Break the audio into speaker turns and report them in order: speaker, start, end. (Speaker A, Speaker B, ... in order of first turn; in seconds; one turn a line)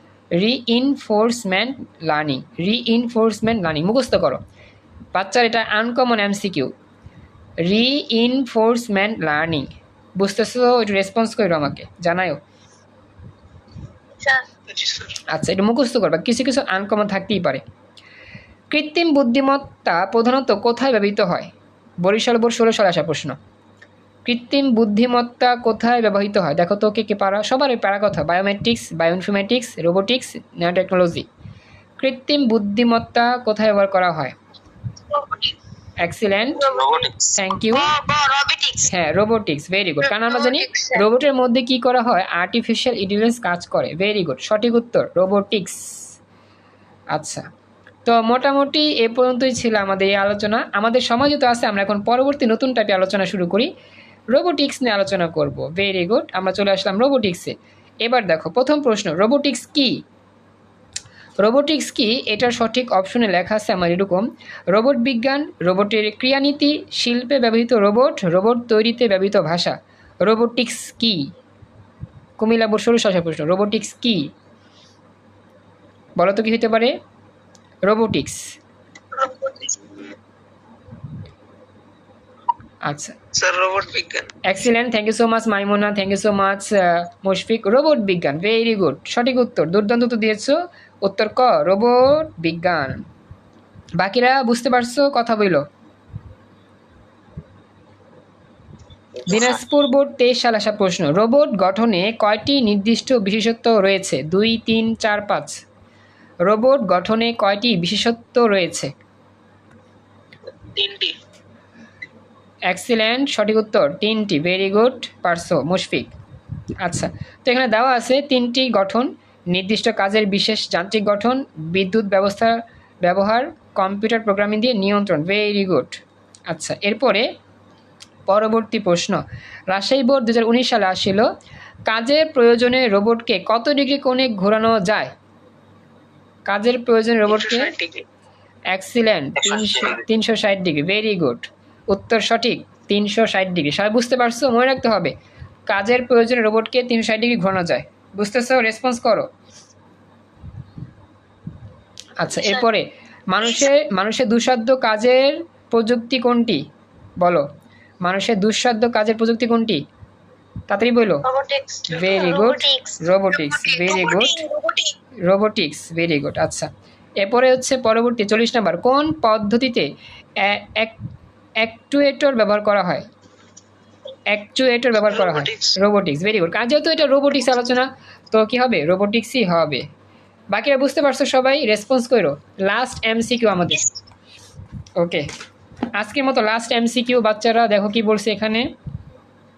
Speaker A: 0.4-4.4
Speaker A: 5.1-6.7
Speaker A: 7.6-12.4
Speaker B: 14.2-14.4
Speaker A: 15.3-17.6
Speaker A: 18.7-23.4
Speaker A: 24.2-31.2
Speaker A: 32.0-34.3
Speaker B: 35.1-35.5
Speaker A: 36.0-36.7
Speaker B: 36.6-37.1
Speaker C: 36.6-38.9
Speaker A: 37.3-37.9
Speaker A: 38.8-45.8
Speaker B: 40.0-41.0
Speaker A: 47.1-47.4
Speaker A: 48.0-53.7
Speaker A: 54.3-59.9
Speaker A: 61.4-71.2
Speaker A: 72.4-74.2
Speaker A: 76.2-76.9
Speaker A: 77.9-78.4
Speaker B: 79.1-79.9
Speaker A: 82.8-83.2
Speaker B: 83.4-84.2
Speaker A: 84.4-93.0
Speaker A: 94.0-95.6
Speaker C: 99.2-99.5
Speaker A: 99.2-105.6
Speaker A: 106.5-108.9
Speaker B: 110.8-111.1
Speaker A: 112.7-116.1
Speaker A: 116.8-127.3
Speaker A: 128.3-131.3
Speaker A: 131.9-135.1
Speaker A: 136.5-137.8
Speaker A: 138.7-145.1
Speaker C: 139.4-140.0
Speaker A: 145.7-149.3
Speaker A: 152.2-156.6
Speaker B: 152.3-152.6
Speaker B: 153.4-153.7
Speaker A: 158.0-159.8
Speaker A: 160.7-161.2
Speaker B: 161.2-164.9
Speaker A: 161.9-164.4
Speaker A: 165.3-166.7
Speaker A: 167.2-169.9
Speaker A: 170.4-171.0
Speaker A: 171.6-173.1
Speaker A: 174.3-179.8
Speaker A: 180.5-183.8
Speaker A: 185.0-185.2
Speaker A: 186.0-188.7